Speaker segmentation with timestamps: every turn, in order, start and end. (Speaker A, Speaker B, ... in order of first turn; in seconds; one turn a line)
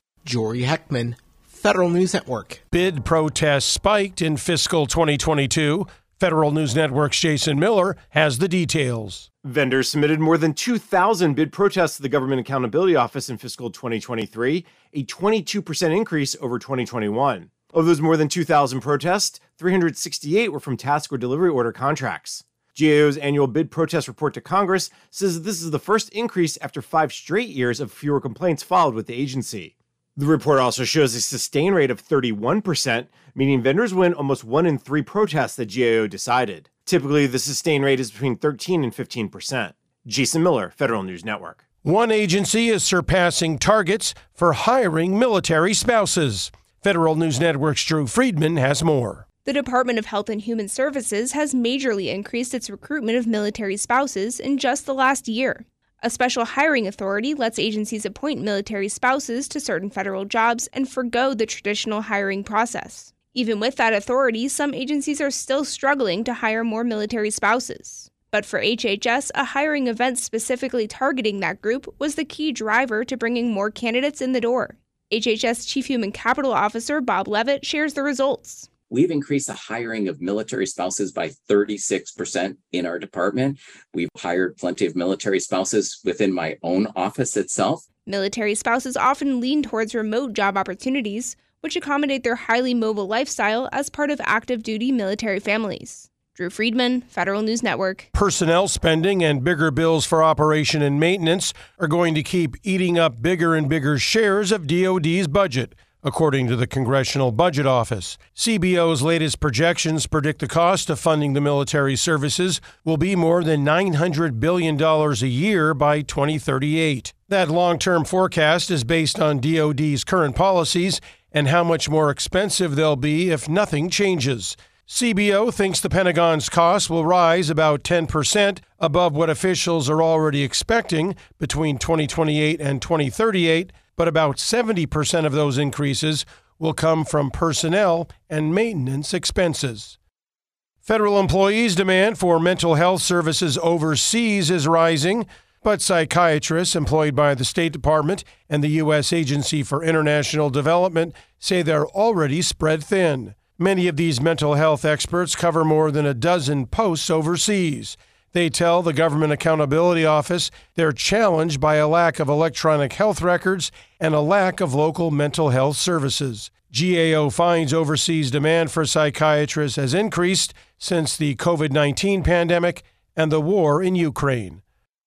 Speaker A: 0.2-2.6
Speaker B: 2.7-9.3
Speaker C: 9.4-41.6
Speaker B: 41.8-49.2
Speaker D: 49.5-78.7
Speaker E: 78.9-87.8
Speaker D: 88.1-98.1
Speaker B: 98.1-140.0
Speaker B: 140.8-174.6